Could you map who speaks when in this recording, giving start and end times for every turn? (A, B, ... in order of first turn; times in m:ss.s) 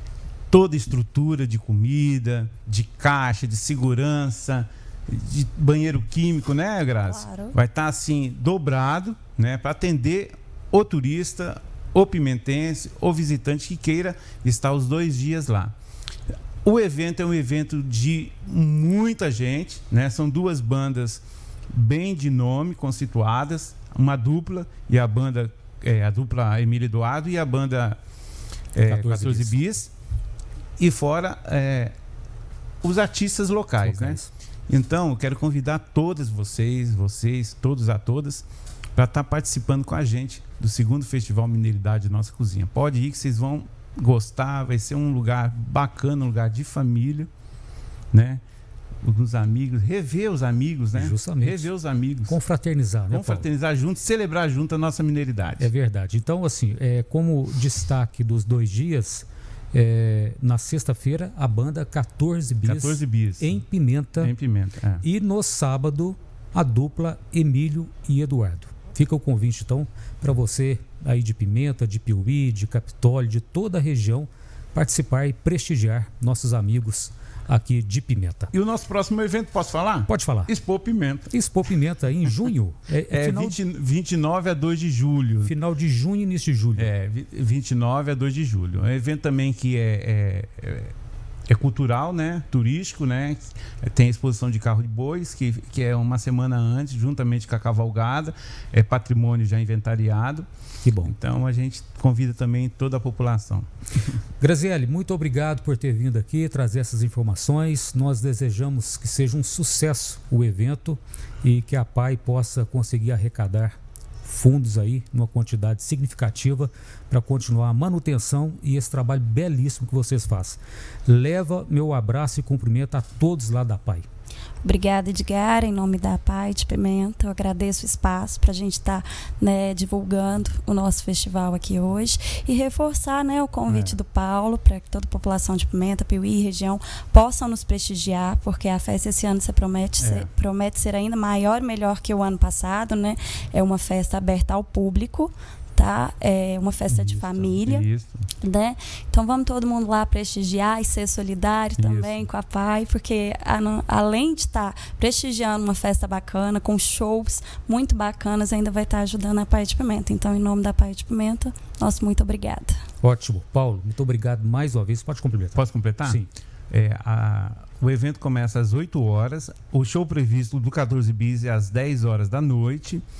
0:00.5-0:15.7 A
0:07.0-0:07.6 B
0:16.6-0:28.0 A
0:28.7-0:29.9 A
0:28.8-0:29.6 C
0:30.8-0:31.9 A
0:32.8-0:47.3 A
0:33.8-0:34.3 C
0:48.1-0:48.4 A
0:49.0-0:52.4 A
0:50.9-0:51.7 C
0:52.3-0:53.5 C
0:53.1-0:55.7 A
0:55.6-1:04.3 C
1:02.6-1:03.6 A
1:04.2-1:05.0 A
1:05.0-1:18.5 C
1:18.5-1:21.3 A
1:20.1-1:20.5 C
1:21.3-1:23.6 C
1:23.1-1:25.5 A
1:25.4-1:26.9 C
1:26.8-1:30.9 A
1:31.5-1:40.4 A
1:40.8-1:41.1 C
1:41.0-1:43.7 A
1:44.4-2:04.0 C
2:04.6-2:27.8 B
2:13.7-2:14.0 A
2:20.0-2:20.3 A
2:26.9-2:28.2 A
2:28.4-2:42.8 B
2:31.8-2:32.3 A
2:43.0-2:46.3 C
2:45.5-2:53.0 A